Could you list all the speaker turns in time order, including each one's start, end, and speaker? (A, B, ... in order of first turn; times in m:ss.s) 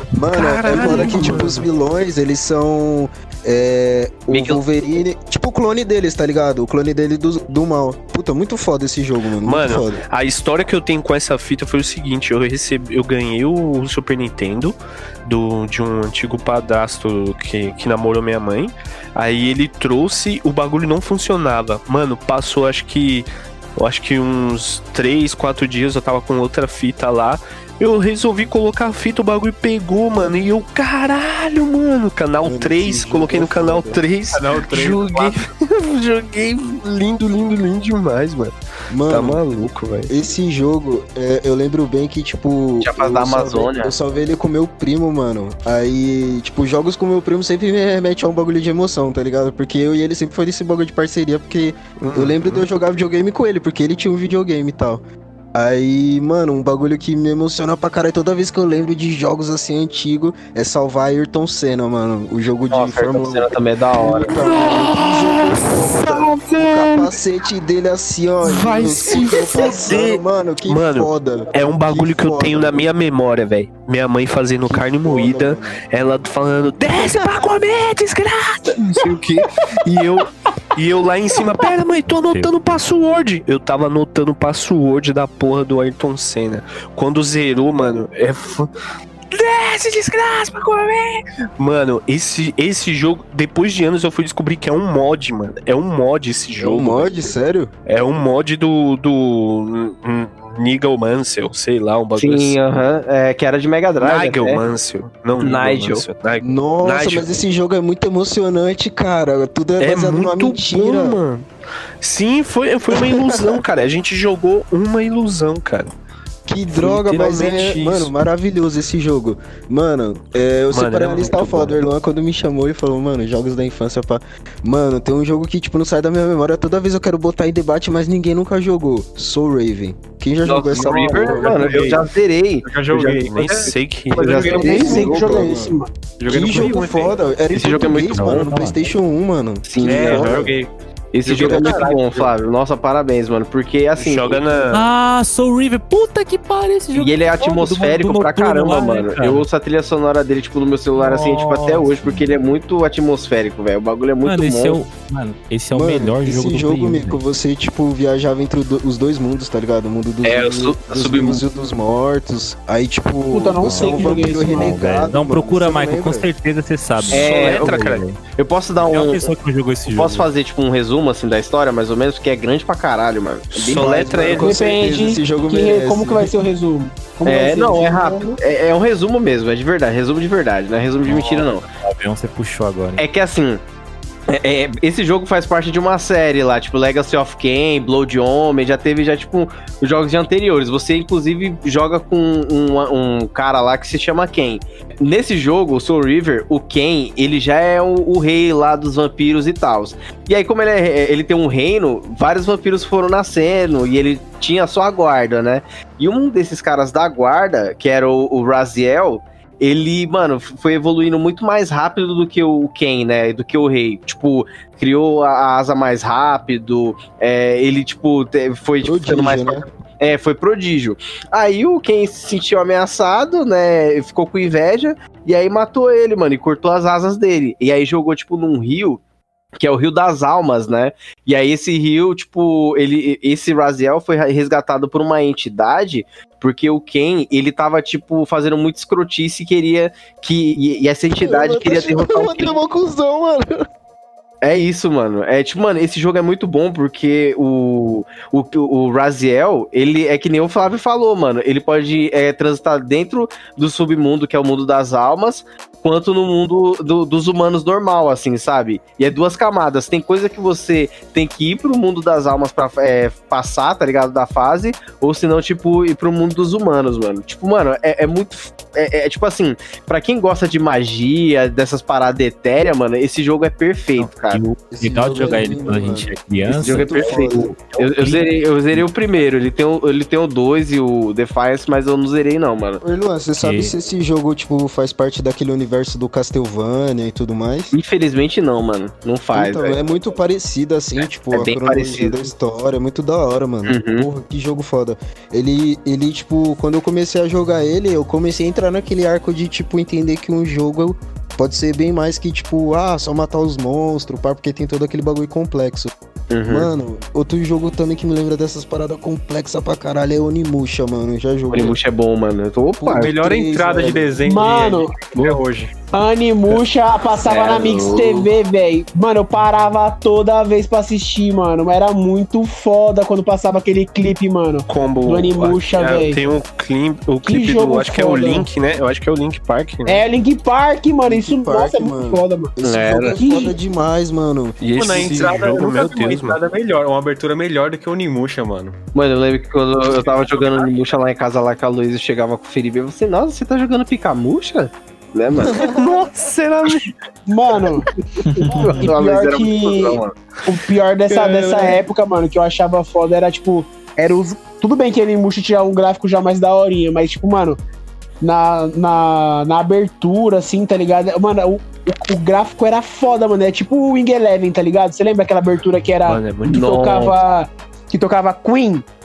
0:00.1-0:10.0 A
0:00.3-0:01.6 B
0:00.8-0:01.3 C
0:04.3-0:04.6 C
0:09.4-0:38.5 B
0:32.4-0:34.0 A
0:34.3-0:35.4 D
0:38.9-1:12.8 A
0:39.1-0:40.1 B
0:42.8-0:43.9 C
0:52.0-0:52.6 B
1:02.7-1:04.3 C
1:04.3-1:07.2 B
1:08.4-1:28.7 B
1:14.7-1:15.8 A
1:22.1-1:22.6 E
1:29.3-1:37.3 B
1:36.6-1:37.7 A
1:37.8-1:42.6 B
1:42.2-1:44.6 C
1:44.0-1:47.3 B
1:45.4-1:46.0 C
1:46.4-1:51.2 A
1:49.8-1:51.5 B
1:52.0-1:55.9 B
1:52.9-1:53.6 A
1:56.5-2:11.8 A
1:56.7-1:58.1 B
2:00.7-2:01.8 B
2:10.4-2:13.5 C
2:10.7-2:12.0 D
2:12.6-2:15.1 D
2:13.3-2:15.0 B
2:14.2-2:15.5 C
2:14.4-2:15.9 F
2:14.4-2:15.7 A
2:16.2-2:17.2 D
2:16.3-2:20.5 A
2:17.5-2:18.5 C
2:17.8-2:18.8 E
2:19.6-2:20.5 C
2:19.8-2:20.7 D
2:21.1-2:24.8 C
2:21.2-2:22.3 D
2:24.0-2:24.8 B
2:24.7-2:29.5 E
2:26.9-2:34.8 C
2:30.9-2:32.4 E
2:34.2-2:37.2 E
2:35.7-2:46.3 A
2:40.2-2:41.4 C
2:43.3-2:44.8 F
2:43.6-2:48.2 E
2:47.1-2:49.3 C
2:47.1-2:48.0 B
2:48.8-2:50.3 E
2:49.8-2:54.5 C
2:53.5-2:54.4 B
2:53.7-2:56.3 A
2:54.4-2:58.4 F
2:57.2-3:01.6 C
3:01.0-3:03.0 E
3:03.0-3:03.6 C
3:04.3-3:49.0 C
3:38.8-3:39.7 A
3:49.6-4:02.6 C
4:01.1-4:03.7 A
4:04.4-4:34.4 C
4:34.0-4:38.8 E
4:34.7-4:37.5 A
4:35.2-4:35.6 C
4:36.5-4:42.8 C
4:42.8-4:47.7 A
4:43.4-4:43.7 E
4:47.7-4:49.8 C
4:49.3-5:05.9 A
4:51.3-4:52.3 C
4:53.6-4:54.1 C
5:06.3-5:06.7 C
5:06.4-5:11.8 A
5:11.5-5:13.2 C
5:12.8-5:14.2 A
5:12.9-5:15.7 D
5:14.2-5:15.0 F
5:15.1-5:15.4 B
5:15.9-5:26.2 F
5:17.2-5:18.2 C
5:24.7-5:30.0 B
5:27.2-5:28.5 F
5:29.8-5:32.5 F
5:31.0-5:35.4 A
5:32.6-5:33.2 C
5:33.1-5:33.5 F
5:34.6-5:36.4 B
5:34.8-5:38.8 D
5:38.9-5:45.8 C
5:45.5-5:45.8 A
5:45.6-5:46.8 B
5:47.3-5:57.6 F
5:48.6-5:50.2 C
5:51.1-5:51.8 B
5:58.2-6:08.8 F
6:06.0-6:06.7 B
6:06.5-6:07.2 C